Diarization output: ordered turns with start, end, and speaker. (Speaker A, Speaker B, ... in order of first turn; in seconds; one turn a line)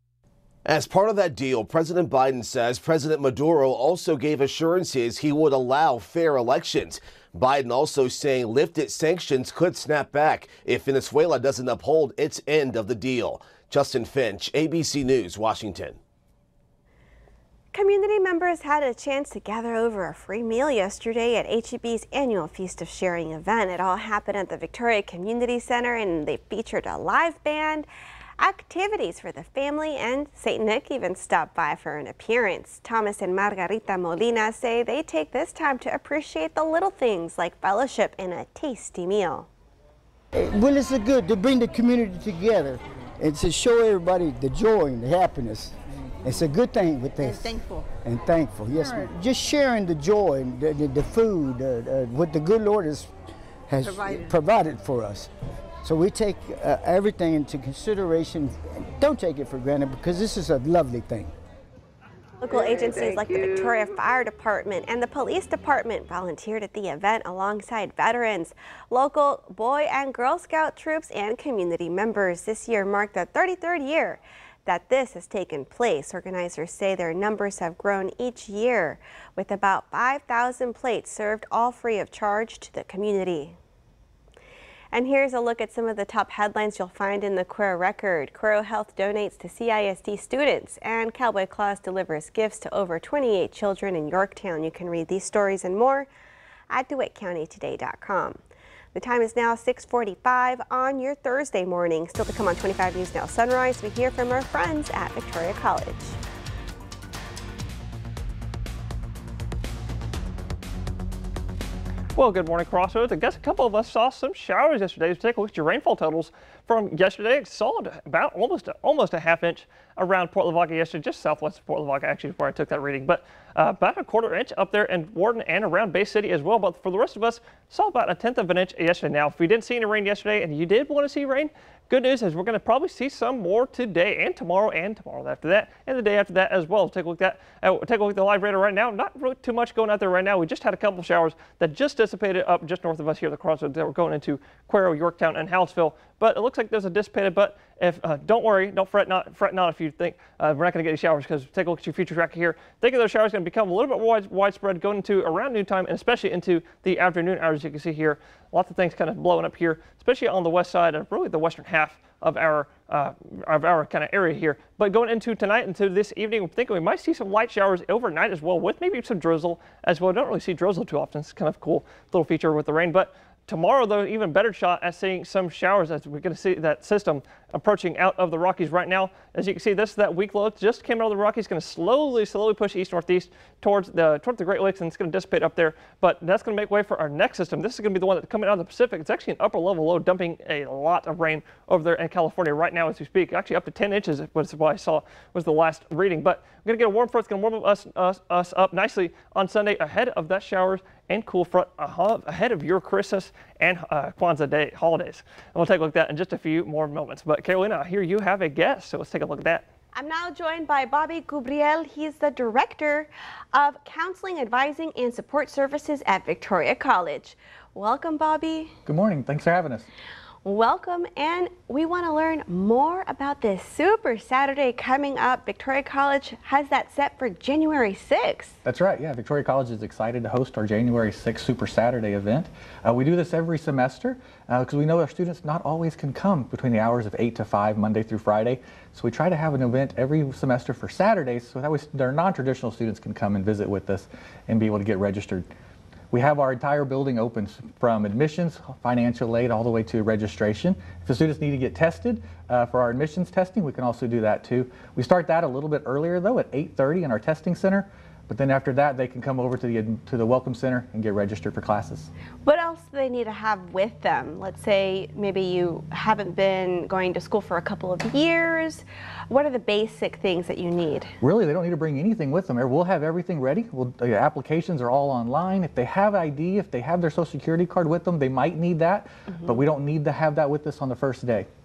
Speaker A: 0.7-16.0
Speaker B: 17.7-27.9
Speaker B: 28.4-39.5
Speaker C: 40.3-53.1
Speaker C: 53.7-55.3
Speaker C: 55.8-61.3
Speaker B: 62.4-83.6
Speaker B: 84.9-96.1
Speaker B: 96.7-98.4
Speaker B: 98.9-106.2
Speaker D: 112.2-209.7
Speaker B: 209.9-218.8
Speaker E: 218.9-219.9
Speaker B: 220.4-228.6
Speaker E: 228.6-245.5
Speaker E: 246.1-262.1
Speaker B: 262.4-271.1
Speaker E: 271.2-281.5